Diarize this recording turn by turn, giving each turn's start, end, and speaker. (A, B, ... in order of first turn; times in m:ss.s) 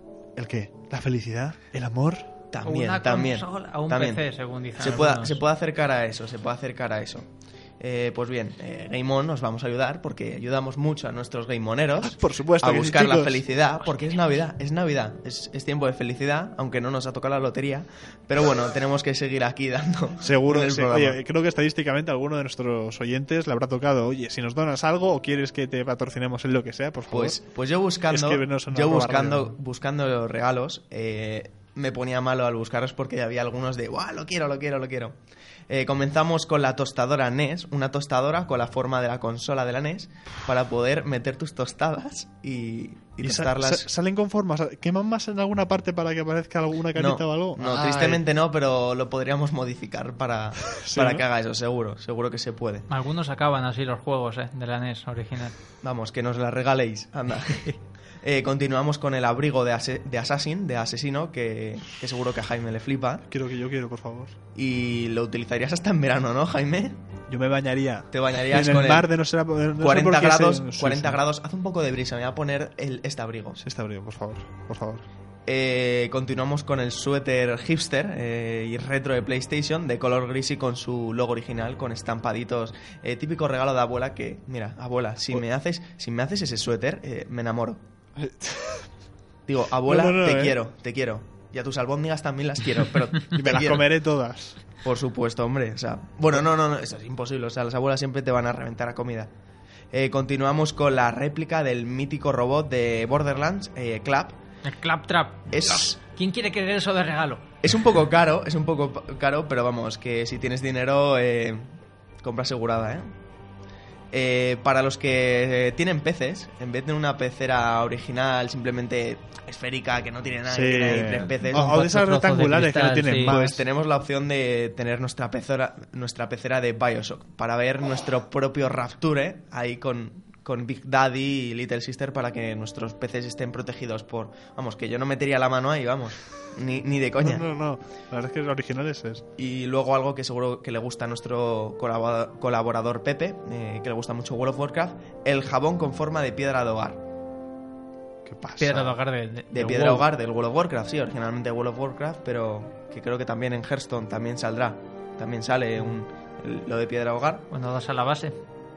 0:00.4-0:02.2 A
0:02.5-0:04.2 B
0:02.6-0:05.4 C
0:04.8-0:07.3 B
0:07.8-0:21.2 B
0:12.0-0:13.4 A
0:20.2-0:27.4 A
0:27.1-0:35.1 B
0:28.1-0:29.5 A
0:35.7-0:43.9 B
0:43.2-0:48.2 A
0:46.9-0:52.8 B
0:50.6-0:51.2 A
0:52.9-0:55.6 C
0:55.8-1:03.2 B
1:03.3-1:04.3 A
1:04.5-1:07.0 B
1:07.3-1:11.2 A
1:08.1-1:09.1 B
1:09.8-1:13.6 B
1:13.6-1:15.0 A
1:15.5-1:27.8 B
1:28.2-1:28.9 A
1:29.4-1:33.8 B
1:29.8-1:30.6 A
1:33.3-1:34.6 A
1:34.8-1:39.3 B
1:39.9-1:44.4 B
1:44.6-1:47.4 C
1:45.5-1:46.0 B
1:47.6-1:51.6 B
1:52.2-1:53.0 B
1:54.1-2:01.8 B
2:00.5-2:03.6 A
2:01.5-2:03.4 C
2:03.2-2:17.4 B
2:17.2-2:19.2 A
2:19.4-2:27.0 B
2:28.2-2:28.9 A
2:28.6-2:30.1 C
2:29.5-2:37.5 B
2:37.5-2:38.3 C